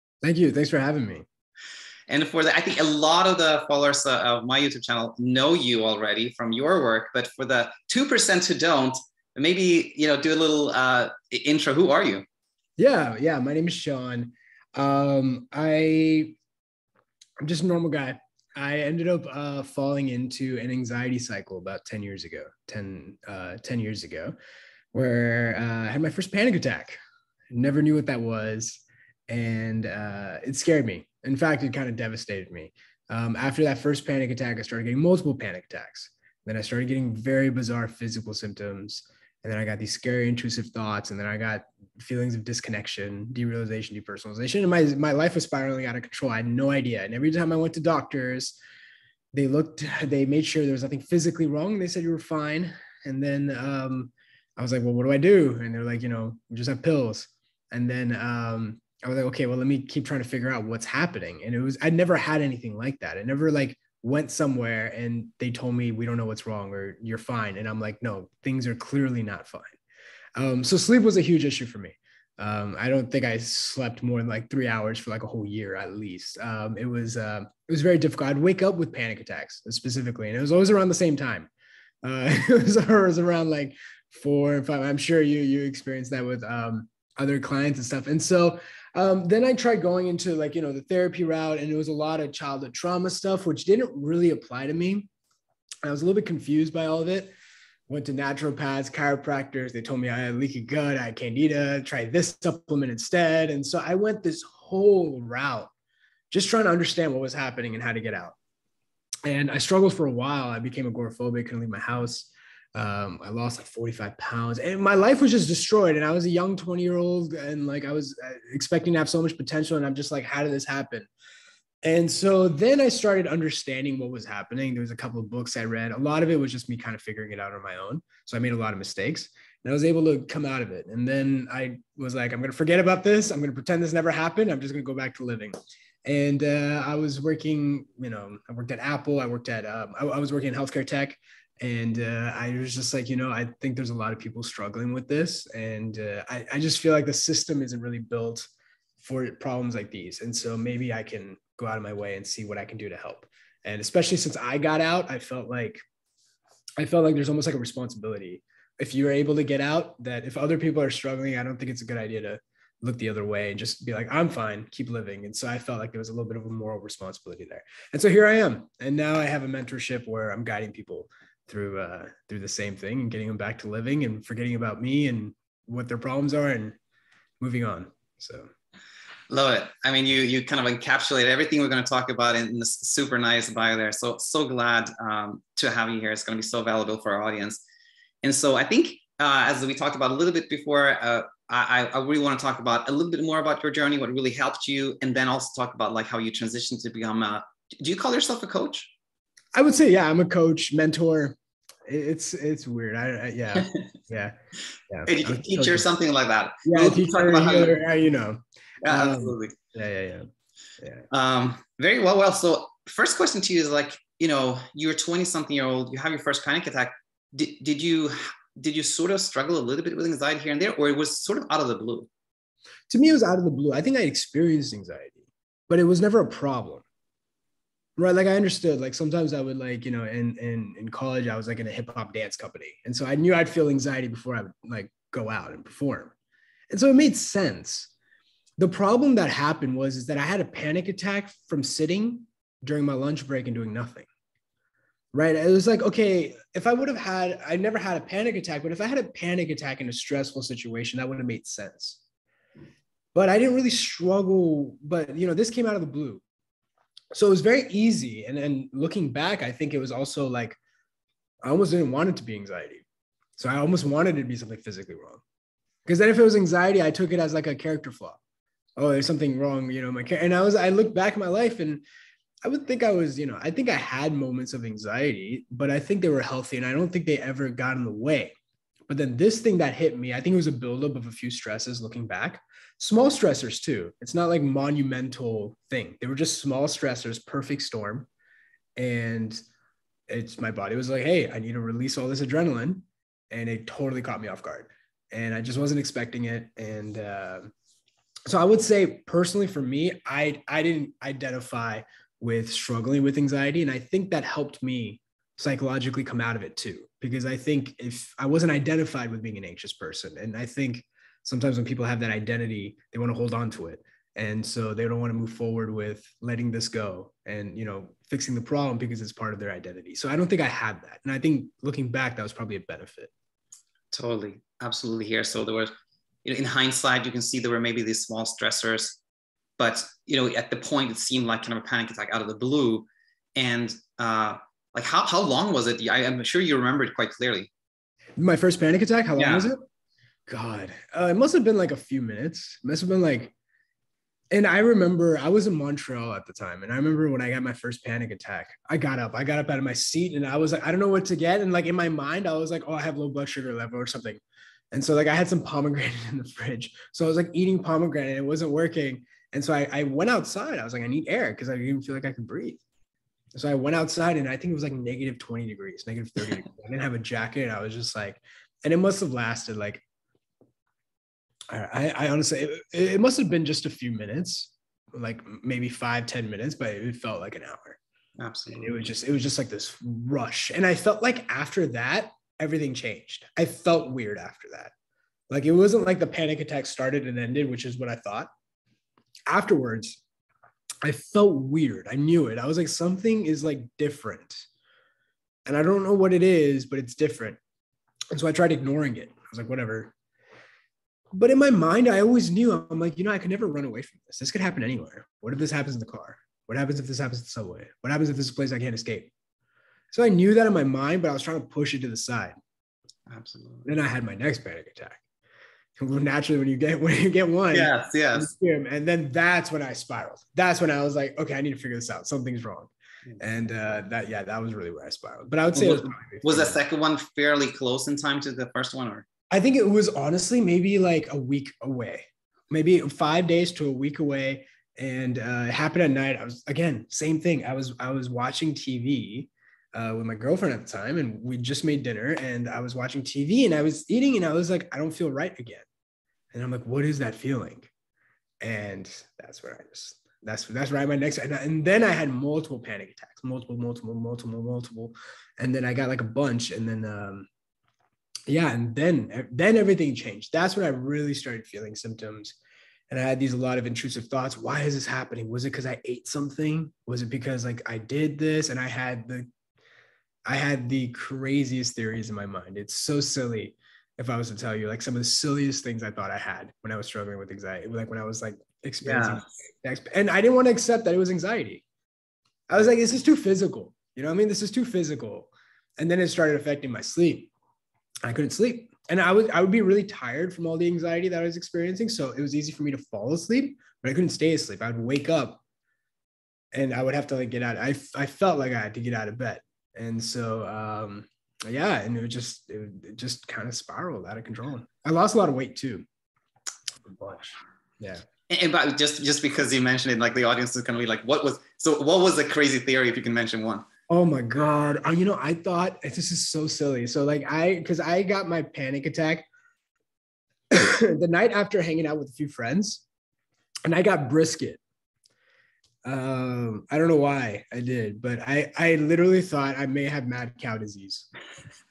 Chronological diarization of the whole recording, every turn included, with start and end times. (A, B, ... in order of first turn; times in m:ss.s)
0:00.2-0:01.2 A
0:02.1-0:12.2 B
0:12.8-0:16.4 A
0:17.4-0:24.4 A
0:24.9-0:27.0 A
0:27.5-0:48.6 A
0:49.3-1:09.8 A
1:10.4-1:21.5 A
1:22.0-1:35.1 A
1:35.8-1:37.3 A
1:37.9-1:45.7 A
1:46.3-1:48.4 A
1:49.2-2:01.1 A
2:01.8-2:15.5 A
2:16.0-2:35.8 A
2:36.8-2:56.8 A
2:57.4-2:58.5 A
2:59.3-3:07.6 B
3:08.2-3:18.9 B
3:19.5-3:24.4 A
3:23.5-3:23.8 B
3:24.9-3:25.9 A
3:25.1-3:27.8 B
3:26.6-3:30.3 A
3:28.8-3:29.6 B
3:31.1-3:42.1 B
3:42.9-3:46.8 A
3:48.0-3:56.1 A
3:56.7-3:57.9 A
3:58.6-4:04.1 A
4:05.1-4:12.0 A
4:13.1-4:16.2 A
4:17.1-4:20.6 A
4:21.4-4:22.8 A
4:23.4-4:25.2 A
4:25.9-4:28.2 A
4:28.8-4:31.8 A
4:32.4-4:38.3 A
4:38.9-4:48.1 A
4:48.8-4:49.4 A
4:50.1-4:57.5 A
4:58.3-5:23.1 A
5:23.9-5:25.7 B
5:26.2-5:29.0 B
5:29.6-5:37.5 B
5:38.2-5:39.6 A
5:39.2-5:39.5 B
5:40.3-5:43.3 A
5:44.3-6:02.6 A
6:03.3-6:09.8 A
6:11.5-6:17.8 A
6:18.2-6:18.7 B
6:18.5-6:24.7 A
6:25.3-6:28.3 A
6:29.3-6:30.0 A
6:30.8-6:34.5 A
6:35.5-6:37.4 A
6:38.1-6:39.9 A
6:41.1-6:49.1 A
6:49.9-6:52.4 A
6:53.1-6:53.7 B
6:53.6-6:55.0 A
6:55.8-7:06.6 A
6:57.5-6:58.3 B
7:05.6-7:09.1 B
7:09.3-7:25.6 A
7:26.3-7:27.7 A
7:28.4-7:37.3 A
7:38.3-7:42.4 A
7:42.9-7:49.3 A
7:50.3-8:01.6 A
7:58.8-7:59.3 B
8:02.5-8:07.3 A
8:08.1-8:15.4 A
8:16.5-8:25.8 A
8:26.9-8:28.0 A
8:28.3-8:33.6 B
8:33.9-8:39.3 A
8:40.5-8:42.8 A
8:43.7-8:44.6 A
8:45.8-8:51.1 A